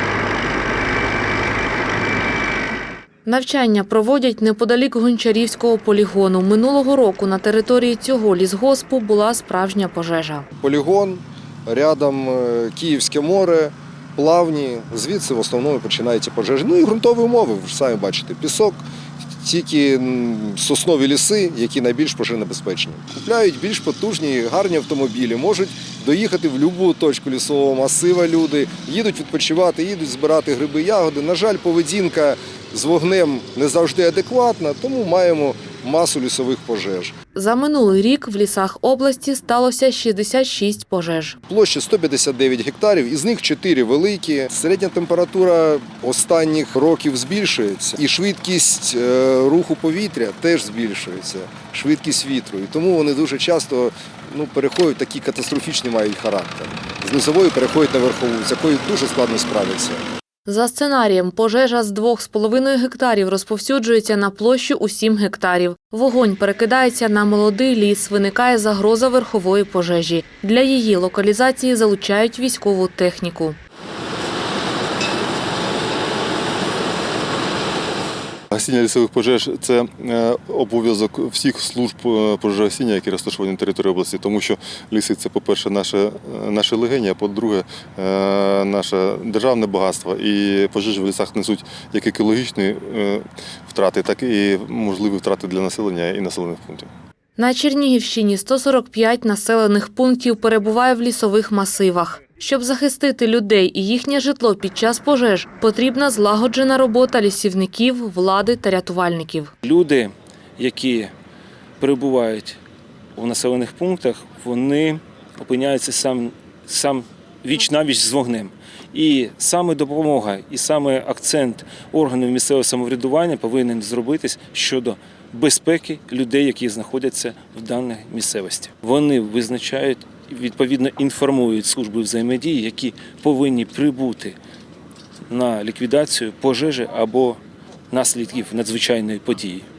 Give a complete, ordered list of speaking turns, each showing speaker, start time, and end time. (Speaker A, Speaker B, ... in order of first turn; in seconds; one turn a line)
Speaker A: 3.2-10.5
Speaker B: 10.6-18.9
Speaker B: 19.4-37.1
Speaker A: 37.3-41.4
Speaker B: 41.5-60.0
Speaker A: 60.5-73.6
Speaker C: 78.5-96.9
Speaker A: 97.4-109.5
Speaker D: 109.6-111.1
Speaker D: 111.8-112.6
Speaker D: 113.2-134.4
Speaker D: 135.3-137.4
Speaker D: 137.9-139.7